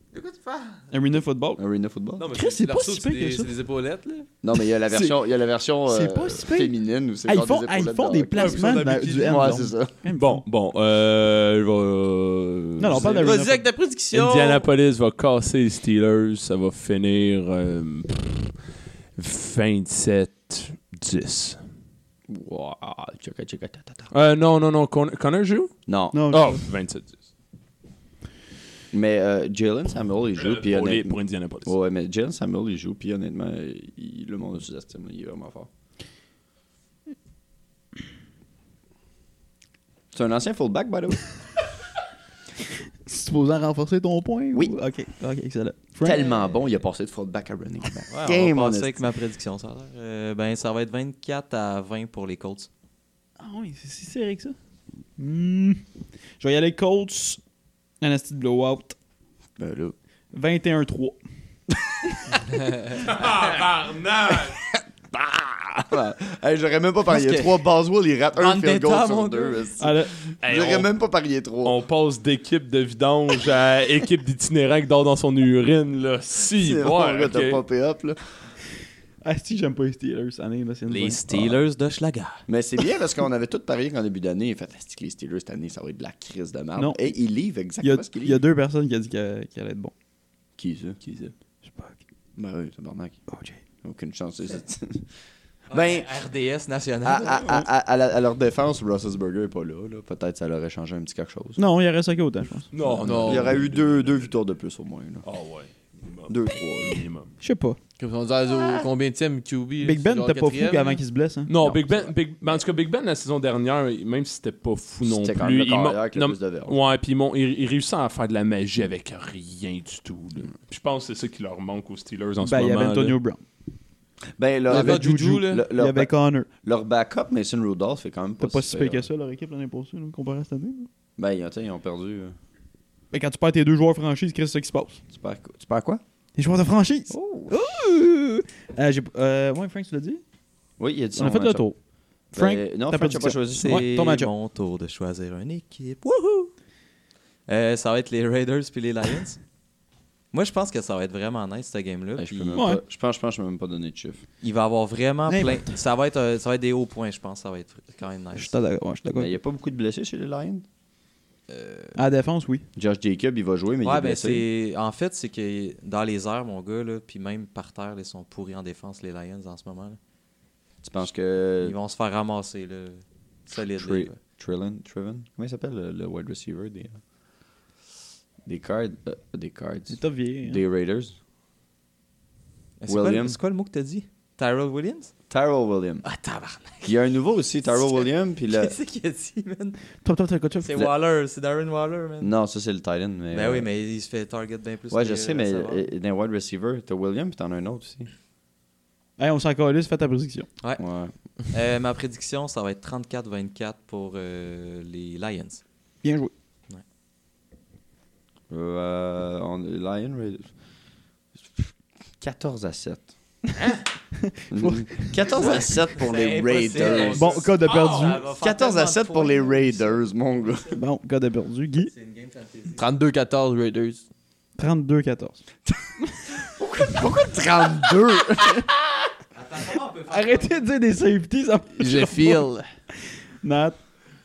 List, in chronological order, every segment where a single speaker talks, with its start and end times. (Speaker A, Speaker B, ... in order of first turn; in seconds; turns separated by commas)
Speaker A: 0.1-0.8, Speaker B: 0.9-1.6, Speaker C: 1.6-2.3, Speaker A: 2.2-4.3, Speaker B: 2.3-3.5, Speaker C: 4.4-9.9, Speaker B: 4.9-5.2, Speaker B: 5.8-6.7, Speaker B: 7.2-10.4, Speaker A: 8.3-9.5, Speaker D: 10.1-13.2, Speaker B: 12.8-13.7, Speaker A: 12.9-14.7, Speaker D: 14.1-18.5, Speaker D: 19.1-21.6, Speaker C: 22.3-24.1, Speaker D: 24.1-25.7, Speaker C: 25.9-26.3, Speaker B: 26.1-26.6, Speaker D: 26.3-27.2, Speaker C: 28.9-35.7, Speaker D: 30.4-31.7, Speaker C: 40.1-41.3, Speaker B: 43.0-46.2, Speaker C: 46.0-49.0, Speaker E: 46.2-46.6, Speaker E: 48.1-52.7, Speaker B: 53.4-54.5, Speaker B: 55.2-55.8, Speaker B: 56.4-57.4, Speaker B: 58.0-58.9, Speaker C: 59.6-60.0, Speaker B: 60.3-61.2, Speaker D: 62.9-64.6, Speaker C: 65.1-71.8, Speaker E: 67.1-67.6, Speaker E: 68.3-69.7, Speaker B: 69.8-70.1, Speaker D: 70.4-70.9, Speaker D: 71.6-77.6, Speaker C: 76.6-78.2, Speaker B: 79.2-81.2, Speaker E: 80.9-82.4, Speaker C: 81.3-81.6, Speaker C: 82.5-88.4, Speaker B: 86.8-87.1, Speaker B: 87.8-89.9, Speaker C: 90.6-91.0, Speaker D: 91.0-91.3, Speaker B: 91.6-92.0, Speaker C: 92.3-93.2, Speaker B: 93.3-93.6, Speaker C: 93.8-95.0, Speaker E: 95.7-97.5, Speaker C: 95.7-96.1, Speaker C: 97.0-101.6, Speaker B: 101.6-102.7, Speaker D: 102.7-104.3, Speaker C: 102.8-105.2, Speaker A: 103.0-103.6, Speaker D: 105.2-107.3, Speaker C: 106.3-107.0, Speaker B: 107.4-107.8, Speaker A: 108.0-111.0, Speaker C: 108.5-108.9, Speaker B: 109.8-111.5, Speaker D: 111.5-123.2, Speaker C: 111.6-112.1, Speaker C: 115.0-116.8, Speaker B: 122.4-123.4, Speaker C: 124.4-129.1, Speaker A: 124.7-125.7, Speaker B: 124.7-126.5, Speaker B: 128.4-130.9, Speaker C: 131.2-132.3, Speaker B: 133.1-135.0, Speaker C: 135.1-136.0, Speaker B: 136.4-140.2, Speaker C: 137.1-137.8, Speaker C: 140.8-141.7, Speaker B: 141.1-141.8, Speaker B: 142.3-144.3, Speaker C: 142.3-143.9, Speaker E: 143.6-146.5, Speaker E: 147.5-149.4, Speaker E: 150.3-152.6, Speaker C: 152.2-154.2, Speaker B: 152.5-152.8, Speaker E: 154.4-158.6, Speaker B: 155.3-155.6, Speaker B: 158.3-159.3, Speaker C: 159.1-160.6, Speaker E: 161.5-161.9, Speaker B: 161.9-162.6, Speaker C: 162.8-164.5, Speaker E: 163.8-170.0, Speaker C: 170.8-171.7, Speaker E: 171.6-174.2, Speaker C: 173.5-177.0, Speaker C: 178.4-181.1, Speaker B: 179.9-180.6, Speaker E: 182.8-185.1, Speaker C: 182.9-183.4, Speaker C: 185.3-186.1, Speaker E: 186.0-189.8, Speaker C: 186.8-188.7, Speaker B: 190.0-190.7, Speaker E: 190.6-192.3, Speaker C: 192.2-193.7, Speaker E: 193.3-195.8, Speaker C: 194.9-198.1, Speaker B: 199.2-200.5, Speaker C: 200.8-201.1, Speaker E: 201.5-205.6, Speaker B: 206.0-206.3, Speaker C: 208.5-210.5, Speaker C: 211.4-213.1, Speaker B: 214.4-215.1, Speaker C: 214.5-217.5, Speaker E: 215.3-220.1, Speaker B: 217.0-218.2, Speaker D: 217.6-218.1, Speaker C: 218.3-220.8, Speaker B: 220.8-221.9, Speaker E: 221.8-222.8, Speaker A: 222.8-224.0, Speaker B: 224.6-225.4, Speaker C: 226.3-228.7, Speaker E: 229.3-230.7, Speaker B: 230.1-232.4, Speaker A: 231.8-232.7, Speaker B: 233.4-233.8